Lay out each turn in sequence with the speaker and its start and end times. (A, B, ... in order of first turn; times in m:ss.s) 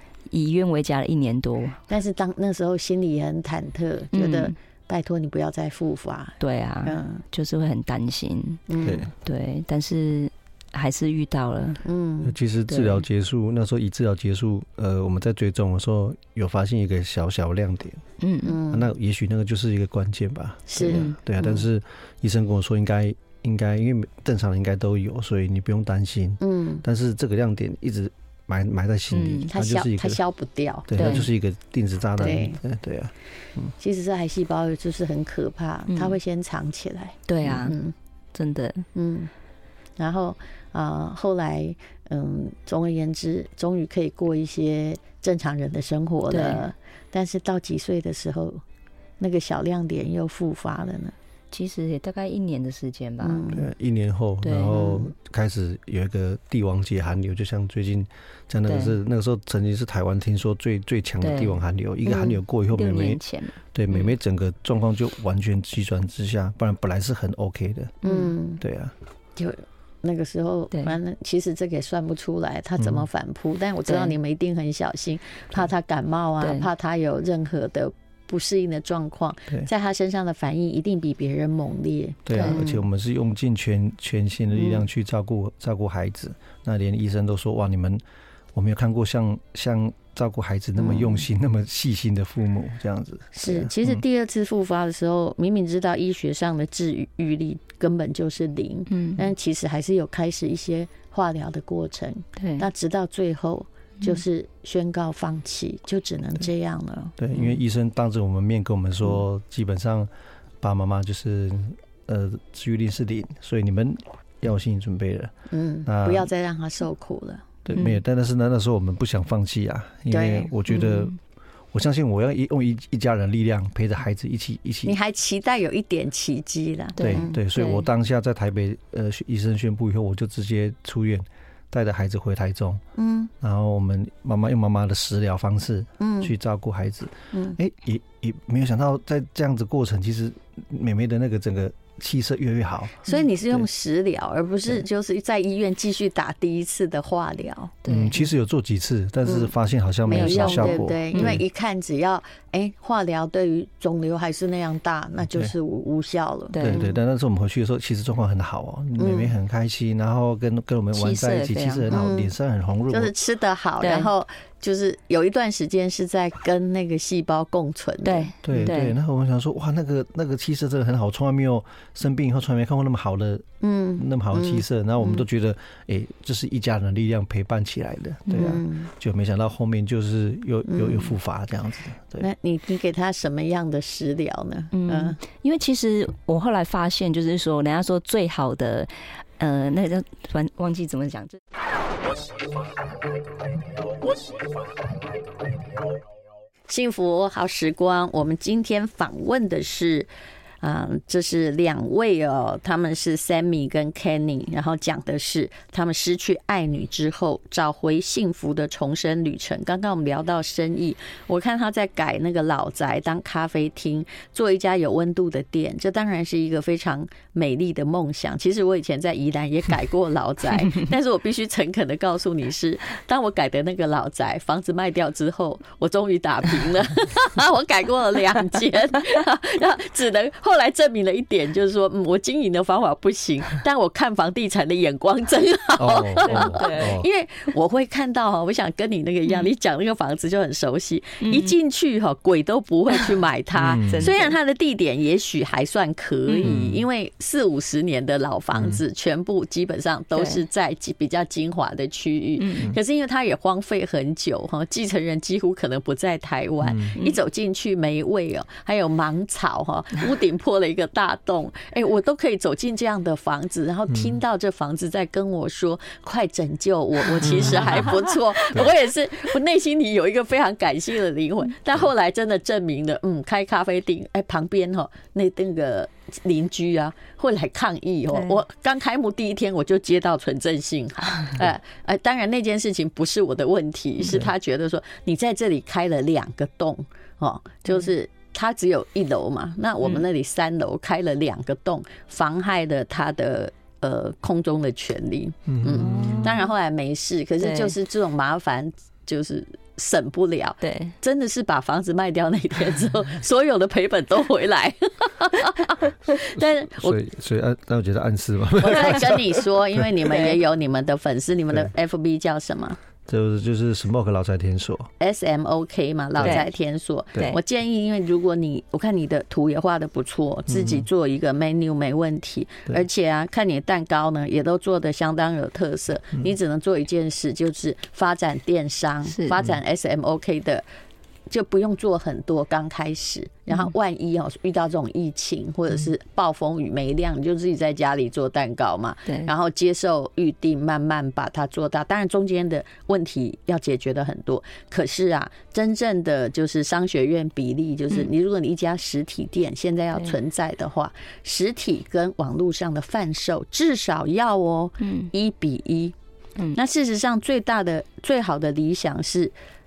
0:00.3-0:01.8 A
0:01.9-0:07.2 B
0:04.1-0:04.5 A
0:06.4-0:11.8 A
0:08.7-0:09.0 B
0:08.8-0:09.1 C
0:11.8-0:12.4 B
0:12.2-0:18.0 C
0:12.7-0:13.0 A
0:18.2-0:18.6 A
0:18.4-0:18.9 B
0:18.7-0:30.2 C
0:20.7-0:21.6 B
0:20.9-0:21.2 A
0:26.4-0:26.8 B
0:29.1-0:29.5 A
0:29.5-0:31.2 B
0:30.9-0:33.7 C
0:31.0-0:31.3 A
0:32.2-0:32.6 B
0:33.8-0:37.9 B
0:35.9-0:36.2 A
0:37.3-0:37.8 A
0:38.3-0:38.9 A
0:39.0-0:39.3 B
0:40.0-0:48.6 B
0:46.3-0:46.6 A
0:49.2-0:51.2 B
0:51.5-0:53.4 A
0:53.2-0:53.7 B
0:53.5-1:03.2 C
0:54.4-0:55.0 A
0:58.7-0:59.0 A
1:01.2-1:01.6 A
1:02.7-1:04.1 A
1:03.7-1:08.0 C
1:08.0-1:08.6 B
1:08.0-1:08.3 A
1:08.6-1:08.9 C
1:09.4-1:22.8 B
1:12.8-1:13.0 C
1:13.9-1:14.2 A
1:16.4-1:16.7 A
1:22.3-1:28.0 C
1:22.3-1:22.6 A
1:24.6-1:24.8 B
1:28.5-1:34.0 C
1:30.8-1:31.2 B
1:33.4-1:47.2 B
1:38.9-1:39.3 A
1:42.4-1:42.6 A
1:47.2-1:50.1 C
1:50.6-1:55.3 C
1:55.5-1:57.5 B
1:55.8-1:56.3 C
1:57.6-2:01.2 C
1:57.7-1:58.0 A
2:00.1-2:00.5 B
2:00.7-2:01.2 A
2:01.7-2:05.0 C
2:04.8-2:07.4 B
2:07.0-2:07.8 A
2:07.0-2:12.8 C
2:13.0-2:13.3 B
2:13.4-2:23.6 C
2:16.0-2:16.3 B
2:17.3-2:17.6 B
2:23.1-2:27.8 B
2:27.8-2:28.2 A
2:27.9-2:31.4 C
2:30.1-2:37.0 B
2:30.1-2:31.4 A
2:36.5-2:36.8 A
2:36.6-2:43.1 C
2:39.0-2:39.3 B
2:40.9-2:41.9 A
2:41.9-2:42.3 B
2:42.9-2:48.7 B
2:43.8-2:44.1 A
2:48.0-2:49.0 A
2:48.4-3:02.3 C
2:53.6-2:55.2 B
2:58.3-2:58.6 A
2:58.4-2:58.9 B
3:00.7-3:01.1 B
3:02.2-3:05.2 B
3:04.7-3:11.4 A
3:16.7-3:20.1 B
3:20.6-5:07.0 B
3:55.8-3:57.1 C
3:56.2-3:57.0 A
4:01.2-4:01.6 A
4:03.6-4:04.1 C
4:03.8-4:04.3 A
4:06.3-4:06.6 A
4:06.4-4:06.8 C
4:10.2-4:10.4 A
4:12.4-4:12.7 A
4:16.6-4:17.0 C
4:23.9-4:24.2 C
4:27.2-4:27.8 C
4:27.4-4:27.9 A
4:55.5-4:56.3 C
4:55.7-4:56.5 A
4:57.4-4:57.7 A
5:00.6-5:00.9 A
5:06.6-5:09.9 C
5:08.6-5:12.8 B
5:13.1-5:14.9 C
5:15.0-5:30.7 B
5:16.2-5:16.5 A
5:20.5-5:20.9 C
5:29.1-5:29.4 A
5:31.3-5:56.0 B
5:39.1-5:39.3 A
5:54.8-5:55.1 A
5:56.5-5:59.4 B